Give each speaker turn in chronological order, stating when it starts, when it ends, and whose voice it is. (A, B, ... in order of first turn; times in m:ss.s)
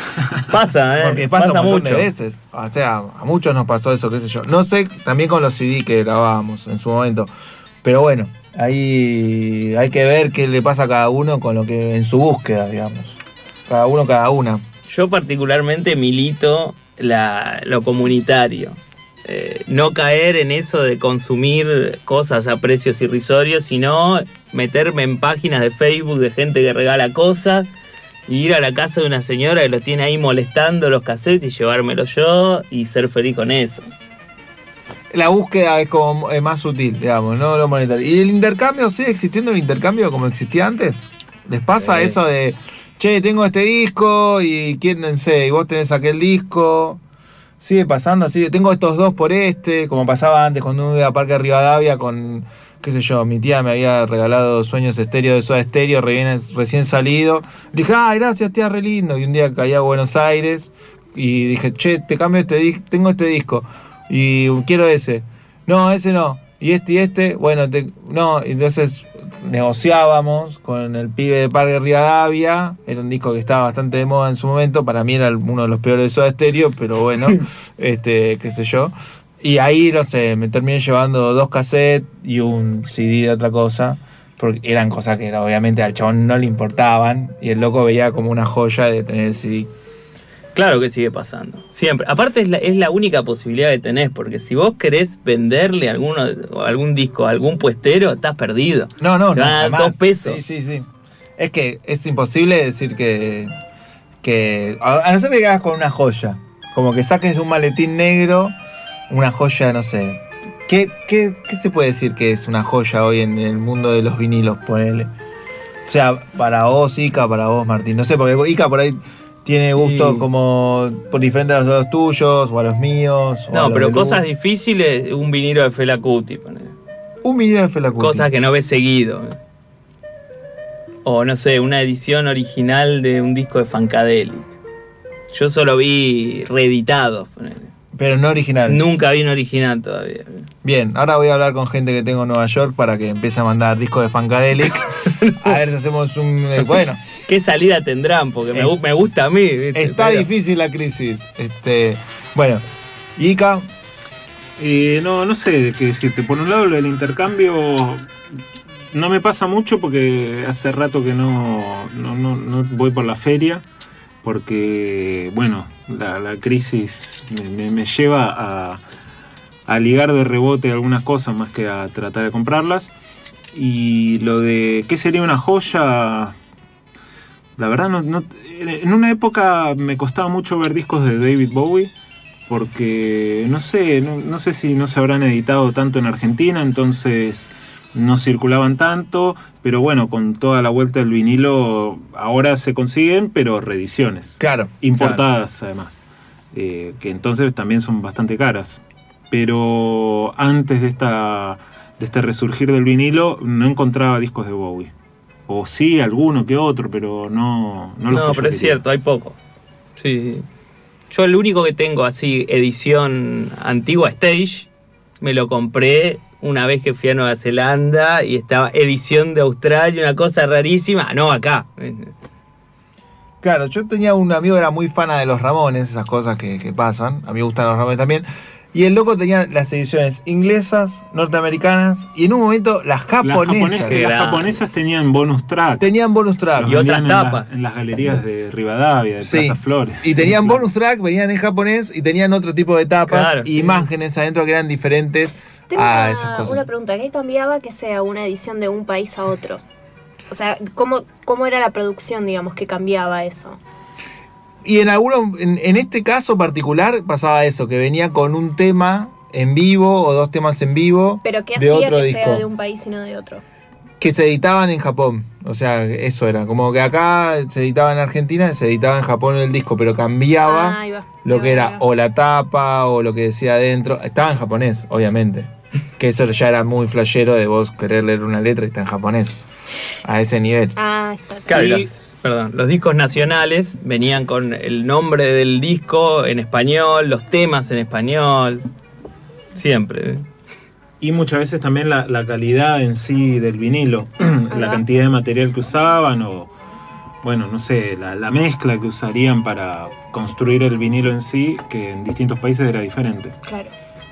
0:00.5-0:02.1 A
0:01.0-0:07.3 B
0:07.8-0:14.6 B
0:14.9-0:27.7 A
0:28.3-0:33.9 A
0:35.1-0:47.0 B
0:41.8-0:42.2 A
0:47.6-1:29.7 B
1:30.6-1:40.4 A
1:39.0-1:43.5 B
1:44.2-1:48.5 B
1:49.1-1:55.1 B
1:55.9-2:04.2 B
1:59.8-2:00.3 A
2:03.5-2:06.7 A
2:07.2-2:08.3 B
2:08.0-2:09.4 A
2:11.0-2:14.5 A
2:15.3-2:17.7 A
2:17.9-2:18.8 B
2:18.7-2:20.5 A
2:20.6-2:27.0 B
2:26.6-2:30.3 A
2:29.7-2:32.6 B
2:33.2-2:33.7 B
2:34.6-2:38.1 C
2:38.9-2:43.6 C
2:44.2-2:48.8 C
2:49.7-2:52.9 C
2:53.5-2:56.4 C
2:57.6-3:01.9 C
3:02.5-3:16.0 C
3:14.4-3:15.2 B
3:16.5-3:18.8 C
3:19.3-3:24.9 C
3:25.5-3:28.8 C
3:28.1-3:29.4 A
3:30.0-3:30.5 A
3:31.1-3:34.7 A
3:35.2-3:42.1 A
3:43.4-3:54.1 B
3:53.2-3:55.8 C
3:53.8-3:54.6 A
3:55.8-3:56.8 B
3:56.6-4:00.6 C
3:56.6-3:57.5 A
3:59.2-4:06.6 B
4:03.1-4:03.9 A
4:05.7-4:09.6 D
4:10.3-4:13.6 D
4:14.6-4:22.4 B
4:21.2-4:23.4 D
4:24.0-4:39.4 B
4:30.4-4:31.8 D
4:40.0-4:40.8 B
4:40.8-4:41.8 D
4:41.5-4:48.6 A
4:49.6-4:50.3 A
4:51.0-4:56.5 C
4:54.5-4:54.8 D
4:57.2-5:03.4 C
5:03.5-5:03.7 D